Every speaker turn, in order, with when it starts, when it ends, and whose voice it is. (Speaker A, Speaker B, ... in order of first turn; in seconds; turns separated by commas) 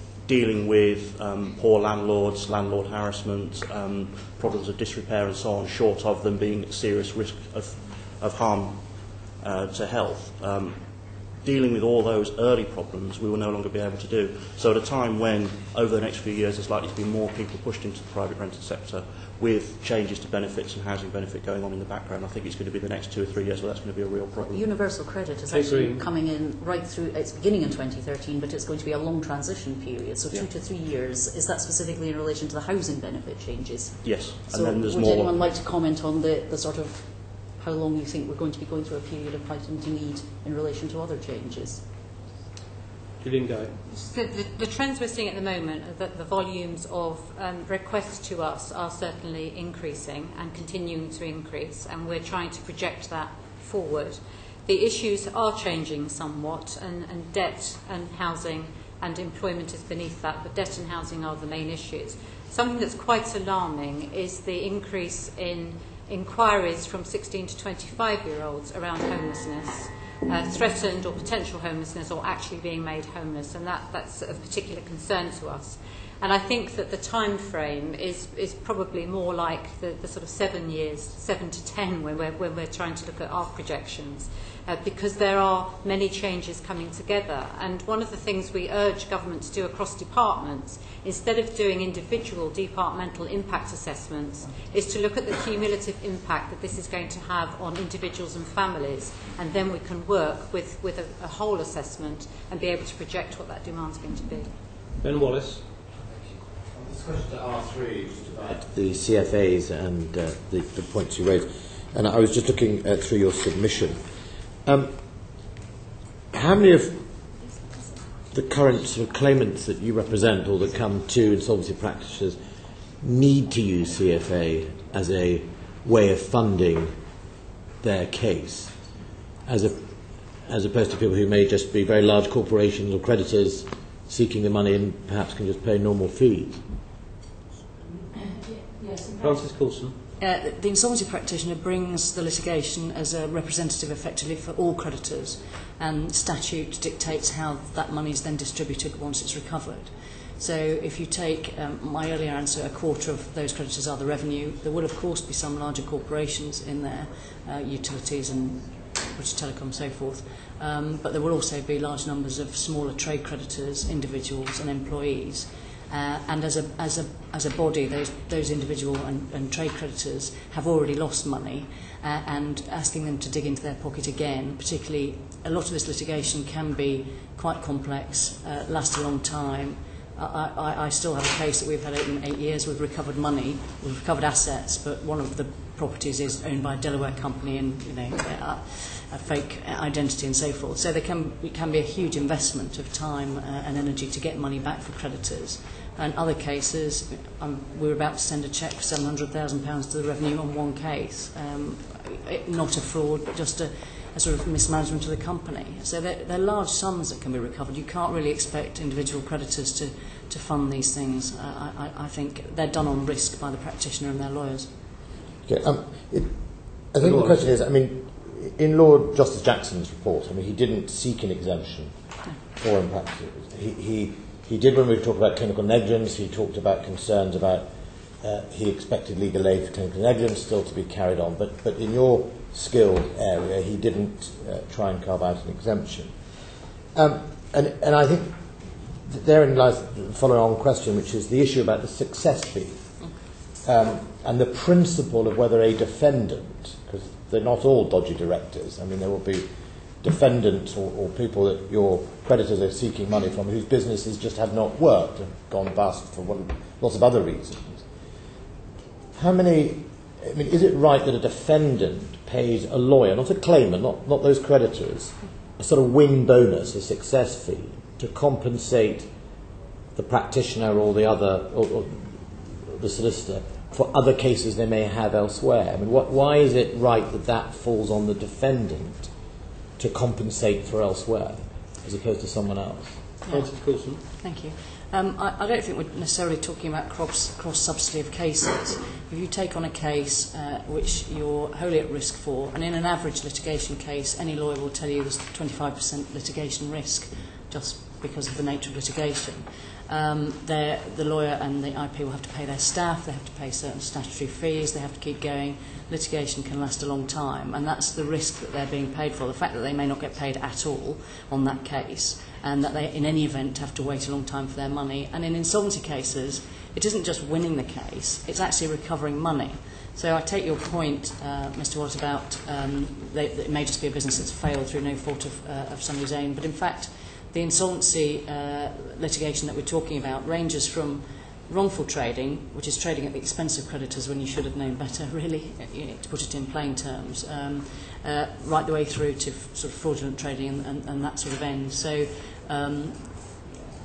Speaker A: 0.2-10.8, Speaker A: 11.4-24.7, Speaker B: 24.4-41.9, Speaker C: 25.5-26.1, Speaker A: 34.0-35.4, Speaker C: 43.2-43.7, Speaker D: 43.9-104.5, Speaker C: 105.0-105.7, Speaker E: 107.2-107.5, Speaker E: 108.2-114.0, Speaker E: 114.7-115.2, Speaker E: 116.3-117.3, Speaker E: 118.3-122.4, Speaker E: 123.0-127.0, Speaker E: 127.8-128.8, Speaker E: 129.4-136.7, Speaker C: 139.0-140.0, Speaker F: 140.2-214.7, Speaker E: 215.5-221.9, Speaker C: 217.0-217.4, Speaker E: 222.6-236.3, Speaker E: 236.9-242.9, Speaker E: 243.6-257.9, Speaker E: 259.1-269.1, Speaker E: 269.9-279.1, Speaker E: 279.8-283.1, Speaker F: 283.2-343.5, Speaker C: 283.3-284.0